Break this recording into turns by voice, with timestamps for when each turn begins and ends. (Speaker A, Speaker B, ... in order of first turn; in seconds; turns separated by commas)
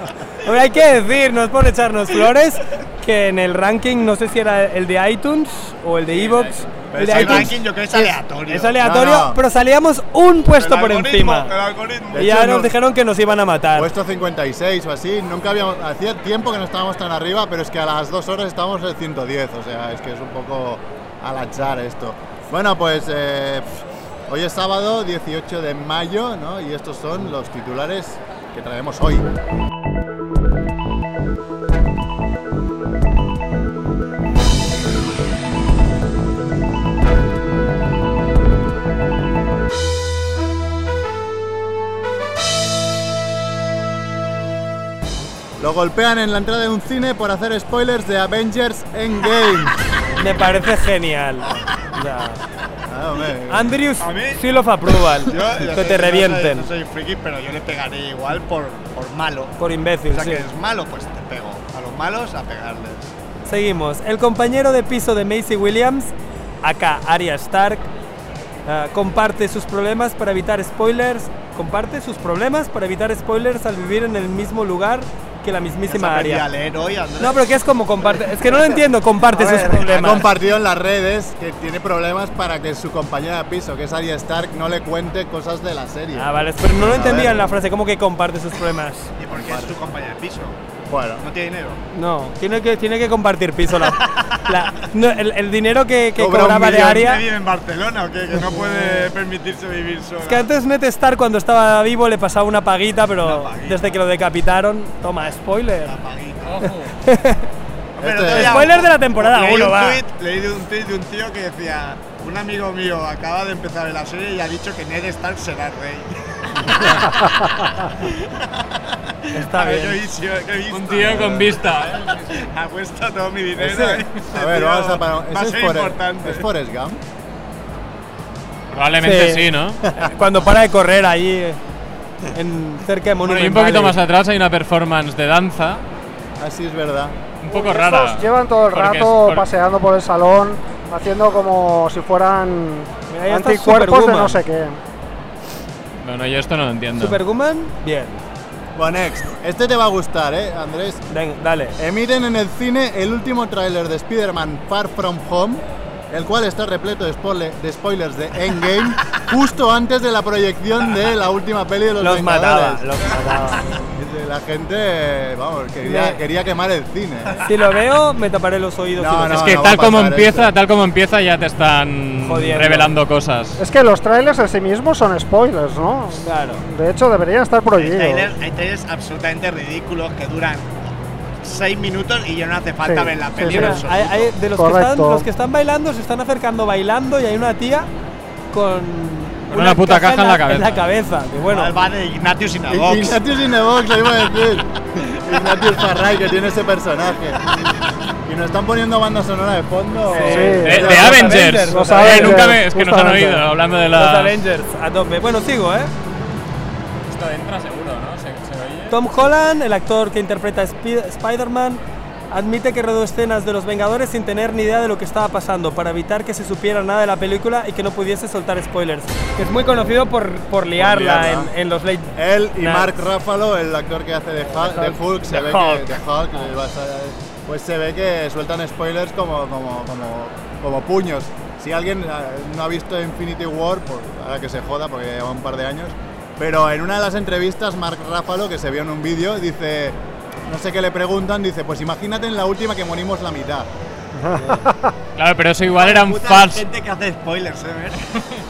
Speaker A: 0.4-11.5, Speaker B: 6.1-6.8, Speaker C: 7.0-7.6, Speaker D: 7.0-8.8, Speaker C: 8.8-9.4, Speaker D: 10.6-12.3, Speaker C: 12.1-12.7, Speaker A: 12.1-13.9, Speaker C: 13.8-23.7, Speaker C: 24.3-29.3, Speaker C: 45.6-49.8, Speaker A: 50.2-52.4, Speaker C: 52.9-53.7, Speaker A: 53.5-56.7, Speaker D: 54.0-54.4, Speaker D: 55.2-59.5, Speaker A: 59.6-60.5, Speaker D: 60.1-63.1, Speaker A: 63.5-67.9, Speaker A: 68.7-76.5, Speaker D: 75.9-77.5, Speaker A: 77.2-80.3, Speaker E: 79.3-80.2, Speaker C: 79.9-87.6, Speaker A: 86.2-89.1, Speaker D: 89.2-90.6, Speaker C: 89.3-89.8, Speaker C: 90.9-91.2, Speaker D: 91.2-91.8, Speaker A: 91.9-97.2, Speaker D: 93.9-94.4, Speaker C: 96.2-97.1, Speaker D: 96.9-100.5, Speaker A: 98.5-99.1, Speaker A: 100.3-106.0, Speaker D: 103.2-103.9, Speaker D: 105.8-106.7, Speaker B: 106.5-106.9, Speaker A: 107.0-107.5, Speaker D: 108.0-117.2, Speaker C: 108.0-108.7, Speaker A: 108.3-110.0, Speaker D: 118.0-118.6, Speaker D: 119.2-121.5, Speaker A: 119.3-120.1, Speaker B: 120.7-122.4, Speaker C: 121.0-121.6, Speaker D: 122.3-126.5, Speaker C: 123.7-127.0, Speaker B: 128.7-129.8, Speaker A: 129.0-129.4, Speaker A: 129.9-131.6, Speaker A: 132.3-134.0, Speaker B: 133.2-135.8, Speaker C: 136.4-137.2, Speaker B: 137.4-139.5, Speaker E: 137.5-144.8, Speaker A: 143.1-144.4, Speaker B: 146.0-147.2, Speaker A: 147.0-148.2, Speaker C: 148.8-151.0, Speaker A: 151.1-151.8, Speaker C: 151.8-162.8, Speaker A: 162.0-163.6, Speaker C: 163.9-167.3, Speaker A: 167.4-169.4, Speaker C: 169.0-170.5, Speaker B: 169.3-173.6, Speaker A: 172.2-173.0, Speaker E: 173.6-178.3, Speaker A: 176.2-176.6, Speaker D: 177.8-184.4, Speaker E: 182.8-183.8, Speaker A: 183.4-187.9, Speaker E: 184.6-185.3, Speaker A: 188.5-191.8, Speaker B: 189.5-190.8, Speaker D: 191.5-193.2, Speaker C: 192.7-197.4, Speaker C: 198.2-201.6, Speaker A: 200.1-202.4, Speaker E: 200.1-203.4, Speaker B: 200.6-204.4, Speaker A: 203.9-205.9, Speaker B: 207.1-208.9, Speaker A: 208.9-222.9, Speaker C: 220.8-221.5, Speaker C: 222.2-243.7, Speaker A: 224.5-226.0, Speaker E: 244.2-244.9, Speaker B: 245.2-246.7, Speaker D: 245.7-248.0